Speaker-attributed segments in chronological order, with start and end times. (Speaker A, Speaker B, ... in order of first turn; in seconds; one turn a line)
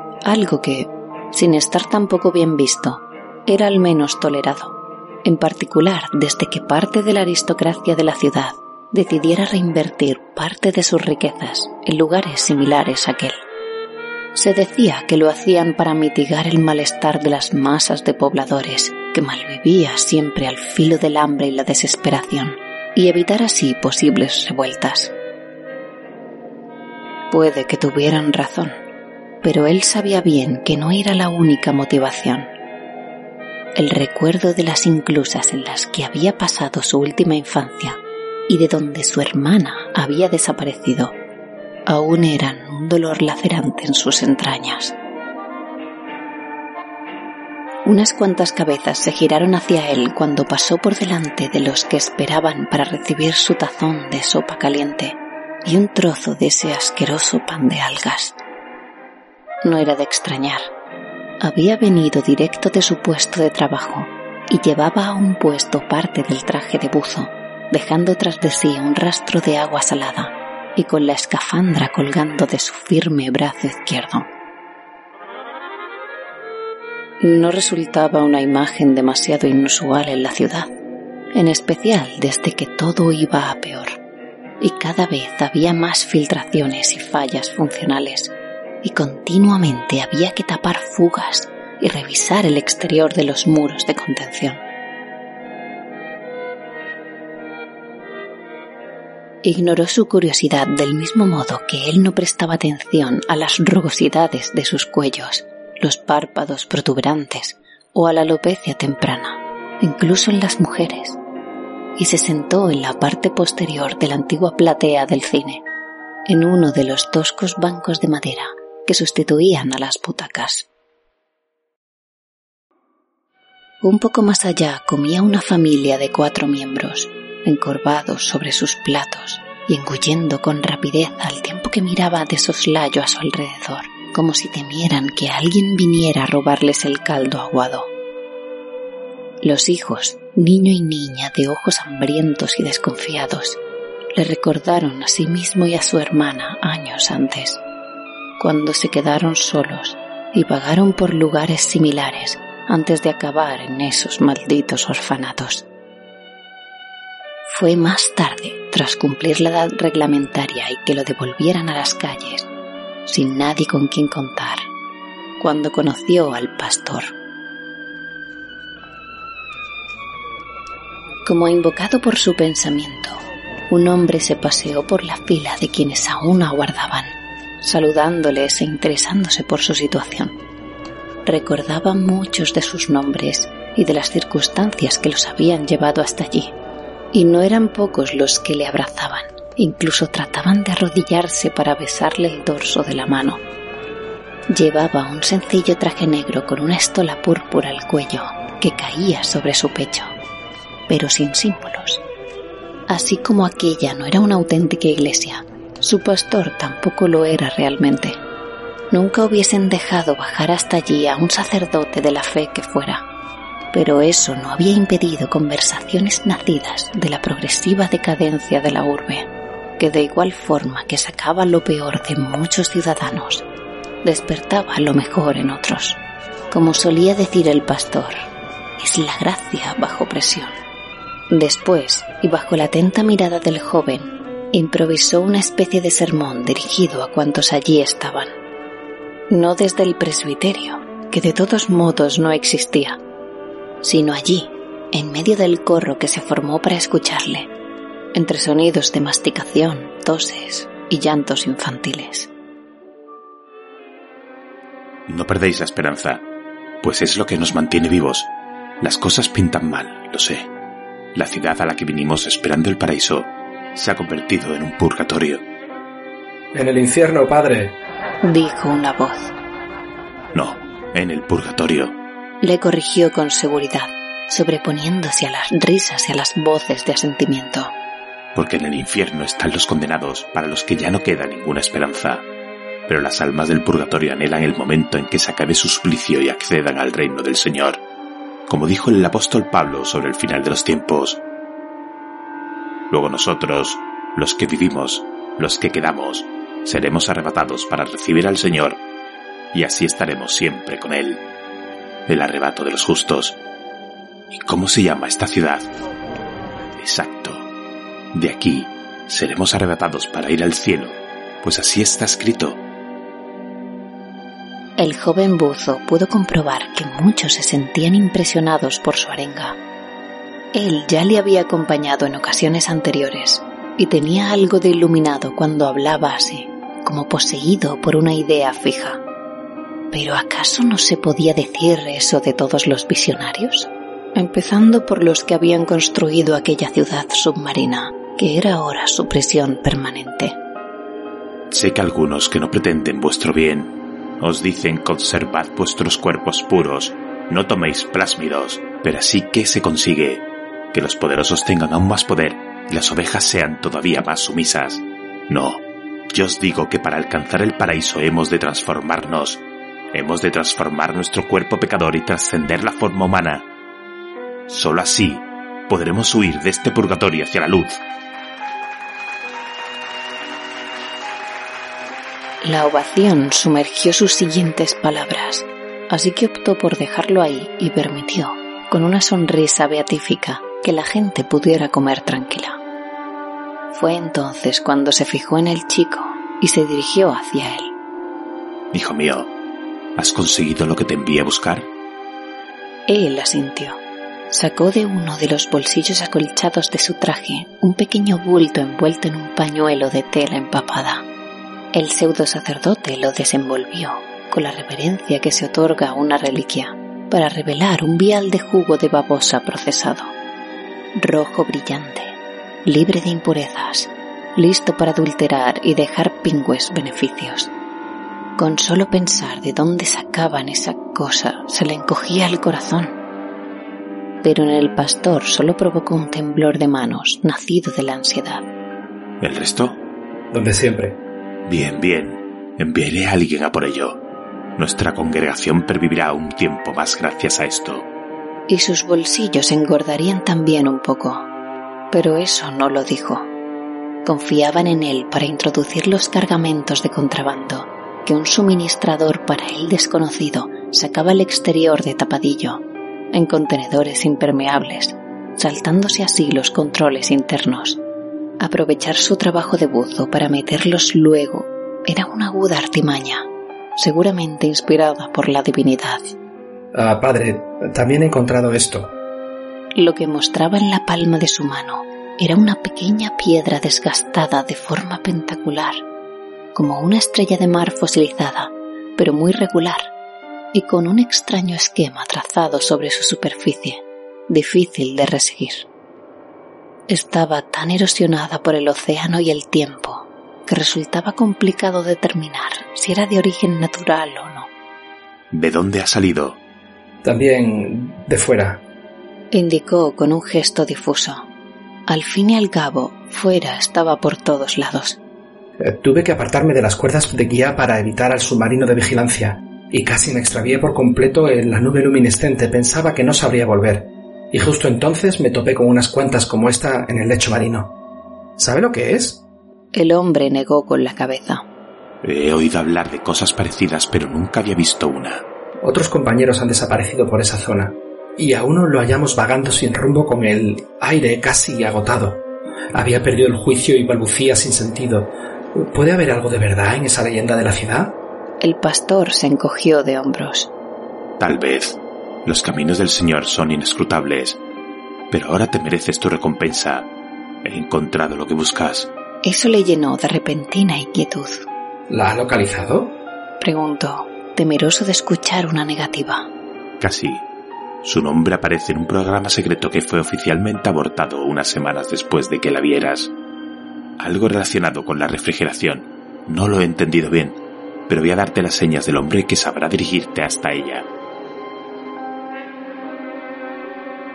Speaker A: 0.2-13.3
Speaker A: 14.3-25.1
Speaker A: 27.3-28.7
Speaker A: 29.4-32.5
Speaker A: 33.8-41.1
Speaker A: 41.9-44.9
Speaker A: 47.8-58.4
Speaker A: 59.6-60.7
Speaker A: 61.4-74.3
Speaker A: 77.2-80.7
Speaker A: 81.3-84.0
Speaker A: 84.6-94.6
Speaker A: 99.4-111.2
Speaker A: 112.0-115.6
Speaker A: 116.3-120.7
Speaker A: 123.8-137.9
Speaker A: 139.4-143.6
Speaker A: 144.2-147.6
Speaker A: 148.4-155.7
Speaker A: 157.5-162.5
Speaker A: 163.1-164.7
Speaker A: 165.4-167.1
Speaker A: 171.2-180.3
Speaker A: 181.2-186.5
Speaker A: 187.1-193.4
Speaker A: 194.5-200.1
Speaker A: 200.9-202.0
Speaker A: 202.9-208.2
Speaker A: 208.9-213.0
Speaker A: 213.7-223.4
Speaker A: 224.0-228.2
Speaker A: 228.8-230.5
Speaker A: 231.3-238.3
Speaker A: 239.3-243.0
Speaker A: 243.8-247.5
Speaker A: 248.1-252.3
Speaker B: 255.1-256.2
Speaker B: 256.8-260.5
Speaker B: 261.1-265.4
Speaker C: 266.5-267.8
Speaker A: 268.2-269.3
Speaker B: 270.3-271.9
Speaker A: 272.4-277.7
Speaker B: 278.3-282.2
Speaker B: 282.9-287.8
Speaker B: 288.5-291.2
Speaker B: 292.9-298.8
Speaker B: 299.5-301.2
Speaker B: 302.1-303.4
Speaker B: 304.3-305.7
Speaker B: 306.7-307.4
Speaker B: 308.1-312.6
Speaker A: 314.8-319.6
Speaker A: 320.5-329.0
Speaker A: 329.9-340.4
Speaker B: 341.5-363.5
Speaker B: 364.5-367.8
Speaker A: 372.4-382.6
Speaker A: 383.7-387.7
Speaker B: 388.7-389.3
Speaker B: 389.9-391.7
Speaker A: 392.9-393.8
Speaker A: 394.3-401.0
Speaker A: 401.7-410.1
Speaker A: 410.9-417.5
Speaker A: 418.4-422.9
Speaker A: 424.2-428.4
Speaker B: 429.2-429.8
Speaker C: 430.3-431.0
Speaker B: 431.4-434.0
Speaker B: 434.6-437.9
Speaker A: 438.5-441.2
Speaker A: 441.9-443.3
Speaker A: 444.0-457.8
Speaker A: 458.4-463.2
Speaker A: 463.8-466.1
Speaker C: 466.7-468.9
Speaker A: 469.8-475.8
Speaker A: 476.5-479.9
Speaker A: 480.5-485.7
Speaker A: 486.9-494.5
Speaker B: 495.3-496.4
Speaker C: 497.0-498.6
Speaker A: 499.3-501.2
Speaker A: 501.9-505.0
Speaker C: 505.6-517.7
Speaker C: 518.4-519.2
Speaker A: 519.7-521.4
Speaker B: 522.0-525.2
Speaker C: 525.6-532.2
Speaker C: 532.7-538.0
Speaker A: 538.4-540.5
Speaker B: 541.2-544.4
Speaker B: 545.1-546.9
Speaker B: 547.4-548.9
Speaker A: 549.2-551.5
Speaker C: 551.9-553.0
Speaker A: 553.4-556.3
Speaker B: 556.8-557.2
Speaker B: 557.8-563.1
Speaker B: 564.0-570.9